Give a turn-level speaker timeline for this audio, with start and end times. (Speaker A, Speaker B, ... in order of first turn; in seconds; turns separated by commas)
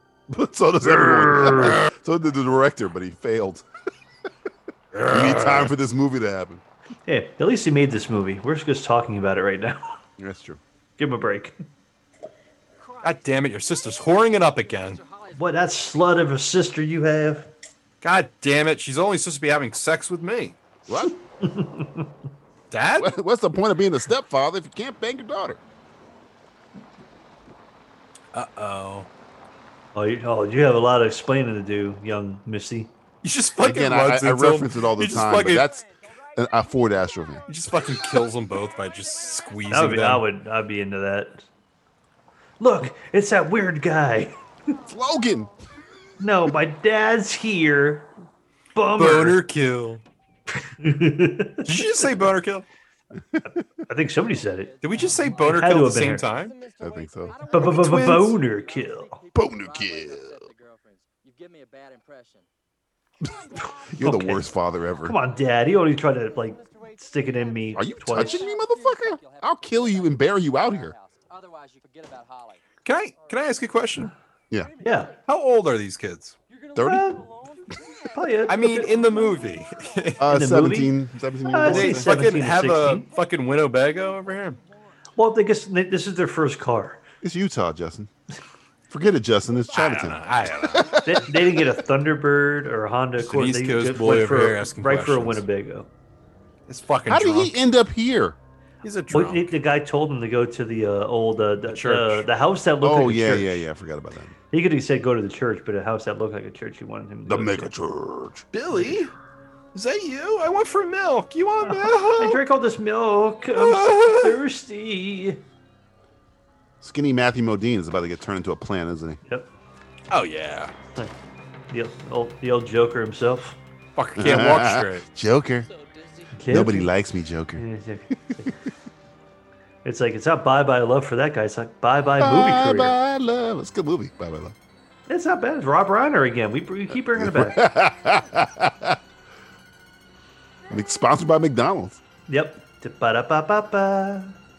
Speaker A: 0.3-3.6, Speaker B: 0.8-1.8, Speaker C: 4.9-5.7, Speaker A: 5.1-6.6, Speaker B: 7.1-9.9, Speaker A: 10.2-10.6, Speaker B: 11.0-11.6, Speaker D: 12.8-16.0, Speaker C: 13.0-15.0, Speaker B: 15.3-17.5, Speaker C: 18.0-20.6, Speaker A: 20.9-21.1, Speaker B: 21.4-22.1, Speaker C: 22.7-23.2, Speaker A: 23.0-25.6, Speaker C: 28.3-29.1, Speaker B: 29.9-32.9, Speaker C: 33.2-35.7, Speaker A: 33.6-37.4, Speaker C: 37.5-40.3, Speaker D: 38.7-39.7, Speaker B: 39.7-41.5, Speaker B: 42.6-44.4, Speaker A: 44.9-45.5, Speaker B: 46.2-48.1, Speaker B: 48.8-49.4, Speaker C: 49.0-50.0, Speaker B: 50.6-51.9, Speaker C: 51.6-52.7, Speaker B: 53.9-54.8, Speaker D: 54.2-62.5, Speaker C: 54.8-56.6, Speaker B: 55.3-56.3, Speaker A: 56.8-57.4, Speaker B: 57.5-59.2, Speaker C: 57.7-58.2, Speaker A: 59.3-60.4, Speaker D: 63.2-63.9, Speaker A: 63.9-65.2, Speaker B: 64.0-64.4, Speaker B: 65.0-68.5, Speaker D: 65.7-72.6, Speaker A: 67.7-70.9, Speaker C: 72.8-74.1, Speaker D: 73.2-73.6, Speaker D: 74.5-75.2, Speaker B: 74.8-75.1, Speaker C: 75.3-76.4, Speaker D: 76.5-80.2, Speaker A: 76.8-77.2, Speaker B: 76.8-77.2, Speaker B: 78.1-78.9, Speaker C: 78.5-80.2, Speaker A: 80.2-82.1, Speaker B: 80.3-83.1, Speaker C: 81.7-84.6, Speaker D: 83.2-84.9, Speaker B: 85.2-87.0, Speaker A: 87.2-88.1, Speaker A: 88.9-91.3, Speaker C: 89.7-91.0, Speaker B: 91.0-95.9, Speaker C: 93.2-95.4, Speaker C: 96.7-97.5, Speaker A: 97.1-98.4, Speaker C: 98.8-99.5, Speaker B: 99.1-103.6, Speaker C: 101.7-102.3, Speaker A: 102.8-104.3, Speaker B: 104.5-107.7, Speaker A: 107.3-108.5, Speaker C: 108.5-109.1, Speaker C: 109.7-112.4, Speaker B: 111.6-115.4, Speaker C: 113.5-114.4, Speaker A: 116.8-119.2, Speaker C: 120.1-120.7, Speaker B: 121.7-123.6, Speaker C: 124.0-125.1, Speaker A: 124.2-125.7, Speaker D: 125.7-126.5, Speaker B: 126.4-126.9, Speaker A: 126.5-127.7, Speaker B: 127.6-128.5, Speaker B: 129.8-133.0, Speaker A: 132.2-134.6, Speaker B: 135.1-137.7, Speaker A: 137.1-139.0, Speaker A: 140.7-142.0, Speaker B: 142.3-144.4